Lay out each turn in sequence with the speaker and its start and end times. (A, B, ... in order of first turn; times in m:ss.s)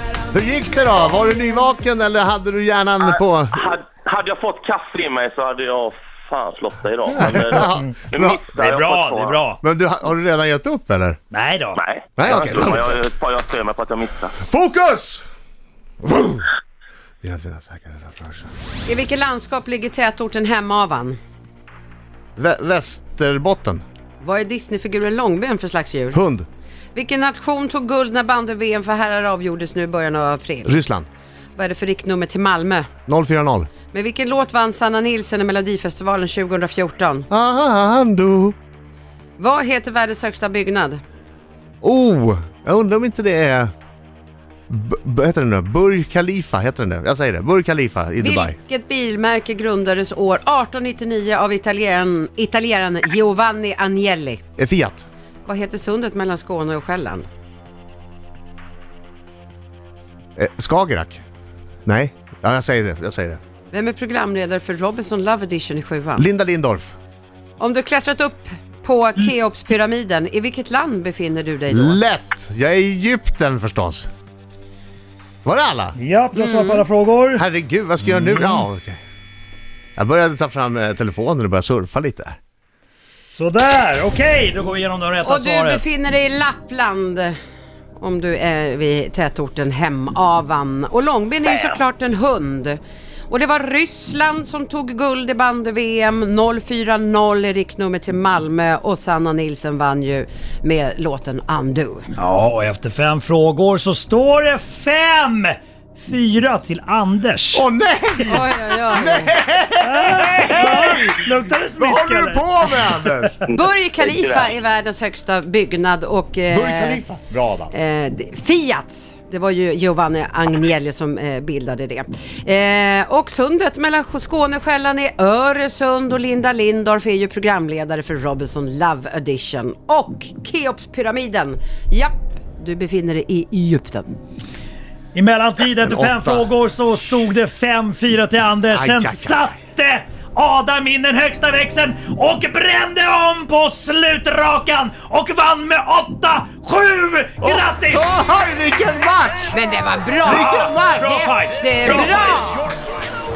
0:00.3-0:03.7 A
0:03.0-0:09.4 B
0:07.2-0:08.4 A
0:07.6-0:09.6 C
0:09.6-0:11.2 A
0:11.3-0:12.6 C
0:11.8-0:14.3 B
0:12.2-0:13.0 A
0:14.4-0:15.2 A
0:16.0-0:16.5 A
0:17.2-0:18.5 A
0:18.8-0:21.2 D
0:22.4-0:23.8 A
0:24.2-0:26.2 D
0:26.1-0:26.4 A
0:26.9-0:30.8 D
0:30.6-0:31.1 A
0:31.6-0:32.9 D
0:33.1-0:33.7 A
0:33.9-0:37.3 D
0:37.3-0:38.6 A
0:39.4-0:41.0 D
0:41.8-0:43.7 A
0:44.7-0:48.6 A
0:48.2-0:54.4 D
0:54.6-0:55.0 A
0:55.4-0:57.3 D
1:00.4-1:01.2 A
1:01.8-1:03.4 A
1:03.7-1:06.3 D
1:06.2-1:06.9 A
1:07.6-1:12.0 D
1:11.7-1:14.1 A
1:15.4-1:16.0 A
1:16.0-1:17.4 C
1:16.3-1:16.8 D
1:17.3-1:19.0 A
1:18.0-1:18.6 C
1:20.0-1:22.4 A
1:23.3-1:25.8 C
1:25.2-1:27.3 D
1:28.0-1:42.1 D
1:31.5-1:31.8 B
1:42.2-1:47.6 C
1:47.5-1:53.4 A
1:48.3-1:49.4 D
1:49.8-1:53.3 C
1:53.5-1:57.0 D
1:53.5-1:54.5 B
1:56.5-1:57.7 A
1:57.7-2:14.1 D
2:15.1-2:28.0 C
2:15.8-2:16.5 A
2:18.7-2:19.6 A
2:27.4-2:29.6 A
2:29.5-2:32.7 D
2:30.2-2:31.2 A
2:30.2-2:32.6 C